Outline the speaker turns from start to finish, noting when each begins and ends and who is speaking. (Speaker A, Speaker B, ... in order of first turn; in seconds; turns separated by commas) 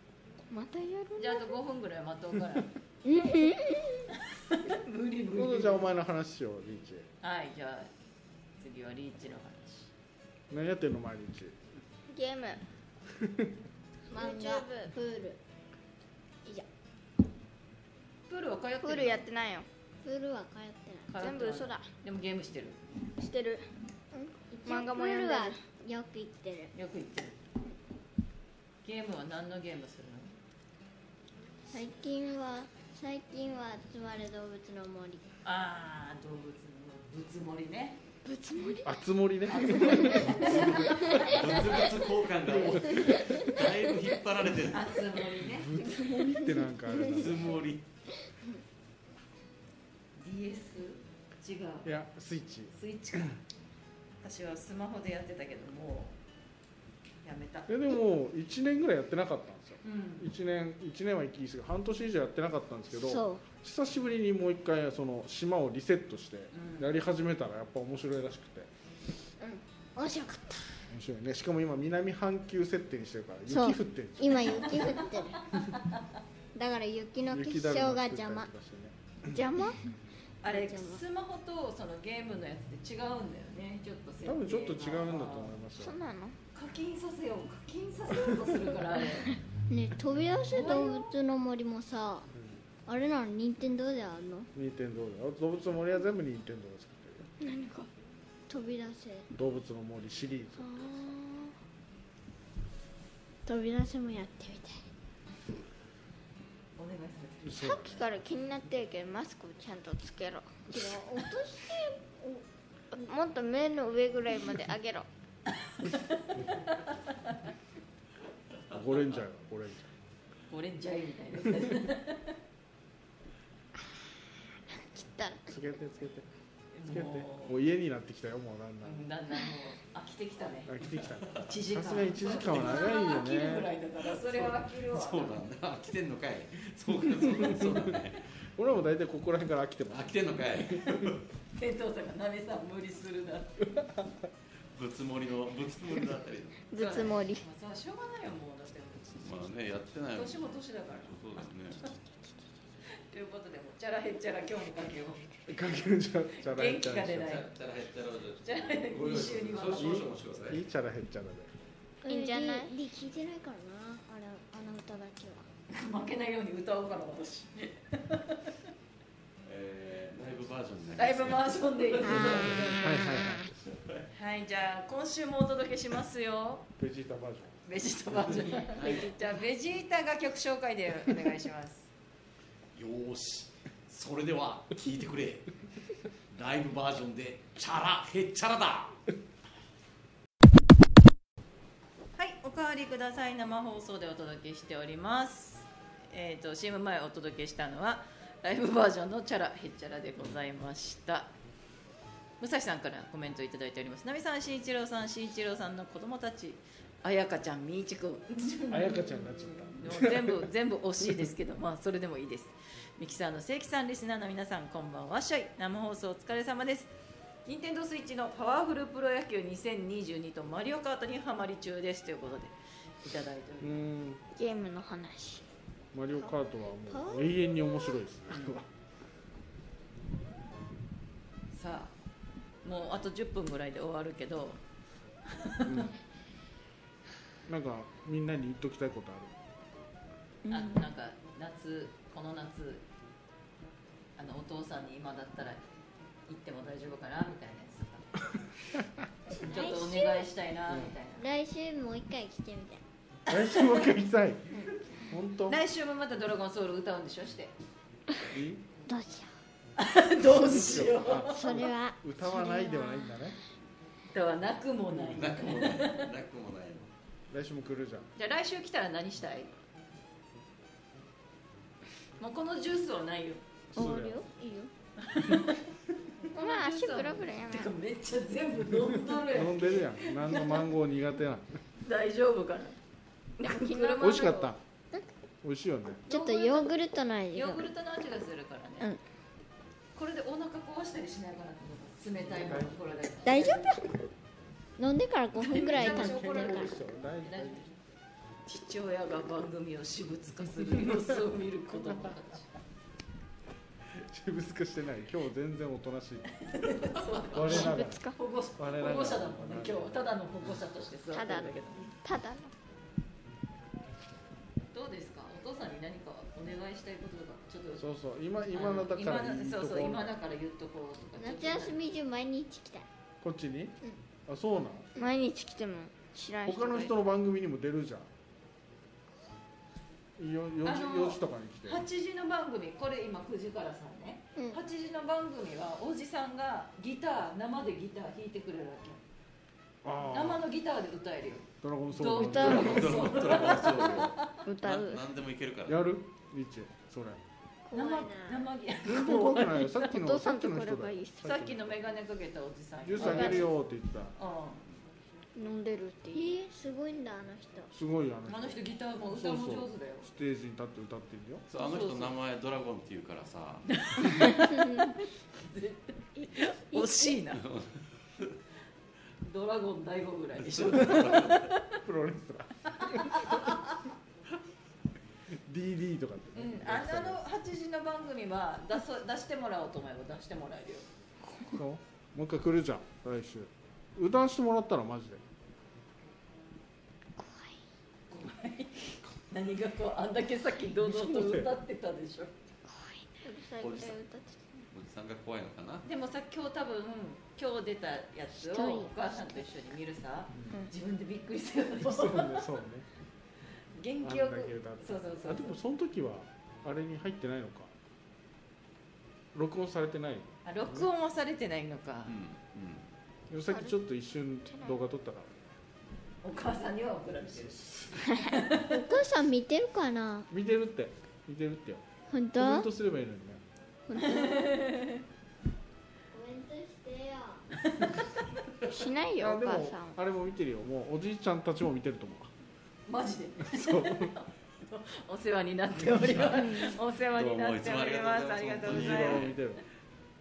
Speaker A: 0.5-1.6, Speaker B: 1.2-2.7, Speaker C: 3.0-4.1, Speaker B: 4.1-5.9, Speaker D: 5.3-7.1, Speaker B: 7.2-7.9, Speaker B: 8.6-9.9, Speaker D: 10.5-11.5, Speaker A: 12.1-12.6, Speaker D: 13.1-13.5, Speaker C: 14.1-15.4, Speaker A: 14.1-14.9, Speaker B: 18.3-19.2, Speaker A: 18.8-19.7, Speaker C: 20.0-21.1, Speaker B: 21.1-22.8, Speaker A: 21.1-21.9, Speaker A: 23.2-23.7, Speaker C: 24.1-26.7, Speaker A: 24.6-25.6, Speaker B: 26.7-27.4, Speaker B: 28.8-30.3, Speaker C: 31.7-35.2, Speaker B: 35.4-38.0, Speaker C: 38.2-38.9, Speaker A: 38.5-38.8, Speaker D: 38.8-41.2, Speaker B: 39.5-41.6, Speaker C: 39.7-41.4, Speaker E: 41.0-45.0, Speaker D: 42.5-43.3, Speaker C: 42.9-43.6, Speaker B: 44.7-45.8, Speaker D: 45.5-47.6, Speaker E: 47.1-47.8, Speaker B: 50.2-51.9, Speaker D: 51.8-52.7, Speaker B: 52.7-53.4, Speaker B: 54.2-56.1, Speaker B: 57.2-57.8, Speaker D: 57.7-68.7, Speaker B: 59.8-60.3, Speaker C: 62.9-63.5, Speaker B: 66.5-66.9, Speaker C: 70.0-70.8, Speaker D: 70.9-75.0, Speaker C: 73.5-75.6, Speaker B: 74.8-76.0, Speaker C: 76.5-78.5, Speaker D: 77.3-79.3, Speaker A: 79.3-79.8, Speaker B: 80.4-85.6, Speaker C: 80.5-81.0, Speaker D: 84.2-86.0, Speaker A: 85.8-86.3, Speaker B: 86.5-89.3, Speaker C: 89.7-92.3, Speaker B: 90.5-91.1, Speaker D: 92.3-92.6, Speaker C: 92.8-94.5, Speaker D: 94.5-97.3, Speaker A: 97.4-97.9, Speaker C: 98.5-99.3, Speaker D: 99.3-100.9, Speaker A: 100.6-101.5, Speaker C: 103.5-104.8, Speaker B: 106.8-107.6, Speaker D: 107.4-108.0, Speaker A: 107.5-110.7, Speaker C: 110.7-112.4, Speaker A: 112.9-115.1, Speaker B: 115.7-117.4, Speaker D: 118.7-119.9, Speaker B: 120.5-122.3, Speaker A: 124.7-125.6, Speaker D: 125.5-126.3, Speaker B: 126.7-127.6, Speaker D: 126.8-129.0, Speaker B: 128.8-130.8, Speaker D: 130.7-133.7, Speaker B: 131.3-135.4, Speaker E: 134.4-138.3, Speaker D: 137.4-137.9, Speaker D: 138.4-141.1, Speaker E: 139.9-141.2, Speaker B: 141.5-143.7, Speaker D: 143.7-144.2, Speaker E: 144.7-146.6, Speaker A: 146.7-147.4, Speaker B: 146.8-149.5, Speaker E: 149.2-151.9, Speaker B: 150.1-151.8, Speaker B: 153.1-155.2, Speaker D: 155.5-157.4, Speaker B: 156.4-157.5, Speaker E: 157.2-160.6, Speaker B: 158.4-160.1, Speaker D: 159.7-161.5, Speaker C: 162.0-165.4, Speaker A: 162.1-162.7, Speaker B: 165.7-168.6, Speaker E: 169.4-172.5, Speaker B: 171.0-172.8, Speaker C: 172.0-173.3, Speaker D: 172.7-173.6, Speaker E: 173.1-174.1, Speaker B: 174.1-176.7, Speaker D: 176.8-177.6, Speaker B: 177.7-181.9, Speaker E: 178.6-179.2, Speaker E: 182.7-185.5, Speaker E: 186.3-189.0, Speaker B: 192.2-201.3, Speaker B: 202.4-216.9, Speaker D: 208.7-210.5, Speaker B: 217.4-223.8, Speaker D: 223.6-224.2, Speaker A: 224.3-225.4, Speaker D: 225.9-228.7, Speaker C: 226.9-227.3, Speaker B: 228.3-228.6, Speaker B: 231.5-231.9, Speaker B: 232.6-234.6, Speaker B: 235.3-235.9, Speaker D: 235.6-235.9, Speaker D: 237.4-239.3, Speaker B: 240.5-242.8, Speaker C: 240.5-240.8, Speaker B: 244.2-245.6, Speaker B: 246.3-248.1, Speaker B: 249.3-251.2, Speaker C: 249.4-250.3, Speaker C: 251.2-252.8, Speaker D: 253.3-255.6, Speaker B: 253.3-253.8, Speaker B: 255.5-257.5, Speaker D: 258.3-258.6, Speaker C: 258.9-259.3, Speaker B: 259.8-261.5, Speaker D: 260.4-263.4, Speaker C: 261.2-263.2, Speaker B: 264.1-266.1, Speaker E: 264.9-266.9, Speaker D: 267.3-268.1, Speaker B: 268.2-269.5, Speaker B: 272.2-273.4, Speaker D: 273.7-274.2, Speaker C: 273.8-274.7, Speaker B: 275.0-275.6, Speaker B: 276.3-280.7, Speaker A: 276.3-277.7, Speaker D: 279.1-281.6, Speaker B: 281.8-282.8, Speaker B: 283.4-284.4, Speaker A: 283.4-284.5, Speaker D: 284.0-284.6, Speaker D: 285.4-286.0, Speaker C: 286.1-287.7, Speaker B: 286.1-286.7, Speaker B: 287.3-288.9, Speaker B: 289.9-293.7, Speaker D: 292.3-292.8, Speaker C: 293.2-293.9, Speaker C: 294.8-296.7, Speaker B: 295.4-297.7, Speaker D: 295.6-297.7, Speaker B: 298.4-302.5, Speaker D: 300.8-301.0, Speaker D: 301.7-302.1, Speaker D: 303.9-306.3, Speaker B: 306.4-311.9, Speaker D: 307.3-308.0, Speaker A: 307.4-308.2, Speaker D: 308.6-310.1, Speaker A: 311.1-312.5, Speaker B: 314.7-317.8, Speaker D: 317.8-320.1, Speaker B: 318.5-321.8, Speaker C: 321.2-322.9, Speaker D: 323.2-324.9, Speaker A: 324.9-326.9, Speaker D: 326.4-328.1, Speaker D: 330.2-331.8, Speaker B: 330.6-339.0, Speaker D: 339.8-340.4, Speaker B: 340.1-344.4, Speaker D: 341.6-343.1, Speaker E: 342.2-345.9, Speaker A: 344.4-345.0, Speaker D: 345.7-347.2, Speaker C: 347.7-348.4, Speaker B: 347.7-349.9, Speaker D: 348.8-351.8, Speaker A: 349.8-351.4, Speaker B: 351.2-353.5, Speaker D: 352.8-354.1, Speaker A: 353.0-353.5, Speaker B: 354.1-354.6, Speaker A: 355.4-356.4, Speaker C: 356.1-357.7, Speaker D: 357.7-361.4, Speaker B: 358.3-360.1, Speaker E: 361.5-363.7, Speaker B: 361.6-362.1, Speaker B: 363.7-367.4, Speaker E: 367.4-368.3, Speaker B: 369.2-371.8, Speaker E: 370.4-371.5, Speaker D: 371.8-373.4, Speaker B: 372.8-373.8, Speaker D: 375.3-377.2, Speaker B: 376.3-380.8, Speaker D: 381.4-385.2, Speaker C: 387.2-387.6, Speaker B: 388.1-392.3, Speaker D: 390.9-391.5, Speaker C: 392.7-393.1, Speaker A: 393.2-394.7, Speaker E: 393.6-394.0, Speaker E: 394.7-395.9, Speaker B: 395.8-402.4, Speaker C: 398.4-398.9, Speaker D: 401.8-402.9, Speaker B: 403.8-405.6, Speaker D: 404.0-407.7, Speaker D: 409.3-410.9, Speaker B: 410.4-412.1, Speaker E: 412.1-412.8, Speaker D: 413.3-415.5, Speaker A: 413.5-413.8, Speaker A: 414.5-414.8, Speaker B: 416.2-418.8, Speaker A: 418.1-418.3, Speaker C: 418.5-420.3, Speaker D: 420.3-423.4, Speaker C: 422.1-422.7, Speaker C: 423.9-424.7, Speaker B: 423.9-425.0, Speaker C: 426.1-427.4, Speaker B: 427.6-428.1, Speaker A: 428.6-430.0, Speaker D: 429.2-432.3, Speaker B: 432.9-439.3, Speaker D: 433.4-434.1, Speaker E: 435.9-439.4, Speaker A: 436.3-436.7, Speaker D: 438.6-439.6